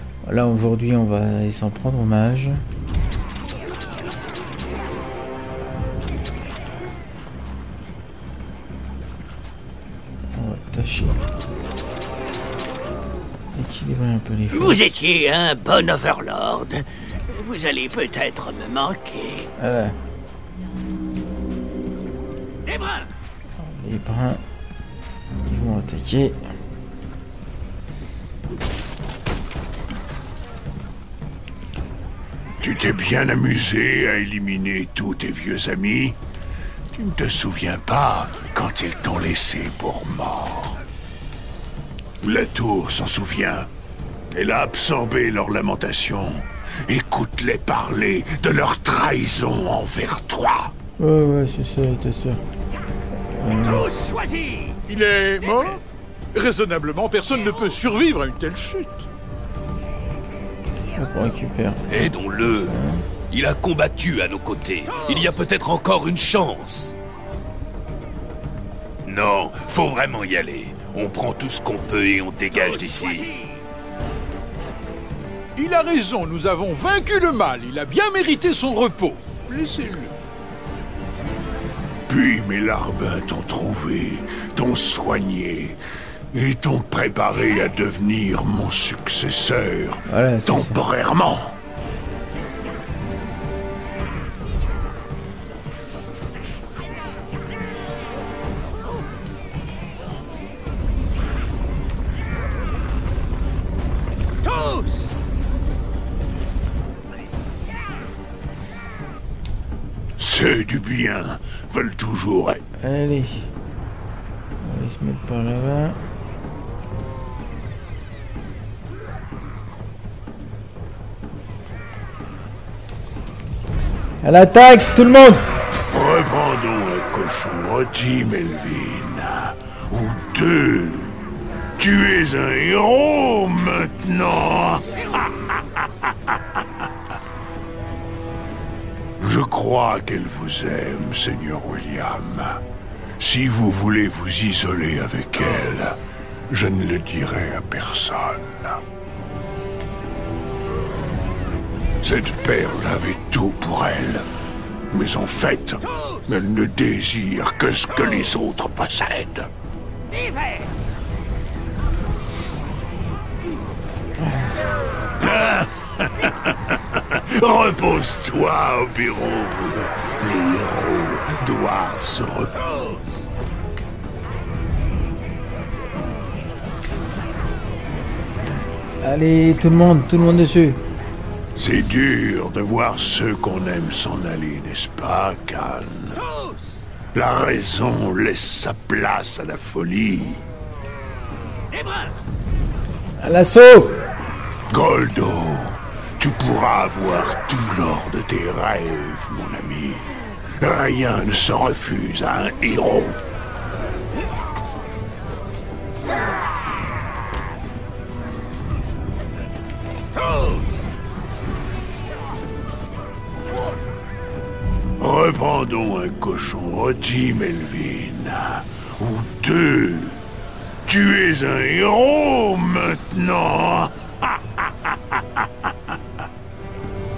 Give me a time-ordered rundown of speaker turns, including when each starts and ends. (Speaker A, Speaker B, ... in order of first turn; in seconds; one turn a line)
Speaker A: 0.2-2.6
Speaker A: 10.3-11.2
Speaker A: 13.5-15.3
Speaker B: 14.5-19.5
Speaker A: 19.6-20.0
Speaker B: 22.6-23.1
Speaker A: 23.6-24.4
Speaker A: 25.4-26.5
Speaker C: 32.6-36.2
Speaker C: 36.9-40.8
Speaker C: 42.2-43.7
Speaker C: 44.3-50.7
Speaker A: 51.0-52.4
Speaker A: 53.3-53.9
Speaker B: 54.0-54.6
Speaker D: 54.9-55.8
Speaker D: 56.3-59.0
Speaker A: 61.0-63.1
Speaker E: 61.9-62.7
Speaker E: 63.3-67.0
Speaker E: 69.0-73.3
Speaker D: 75.6-80.1
Speaker C: 82.1-85.8
Speaker C: 86.3-91.6
Speaker A: 90.1-90.8
Speaker C: 110.2-112.6
Speaker A: 112.8-113.5
Speaker A: 114.6-116.0
Speaker A: 124.2-125.4
Speaker C: 125.9-131.2
Speaker C: 131.8-136.6
Speaker C: 139.2-142.6
Speaker C: 143.2-148.8
Speaker C: 152.0-154.3
Speaker C: 154.9-159.5
Speaker A: 164.2-164.5
Speaker C: 165.2-172.9
Speaker A: 179.0-180.8
Speaker C: 181.6-186.3
Speaker C: 187.1-190.4
Speaker A: 193.2-194.0
Speaker C: 194.7-203.2
Speaker C: 215.0-220.2
Speaker C: 220.8-225.9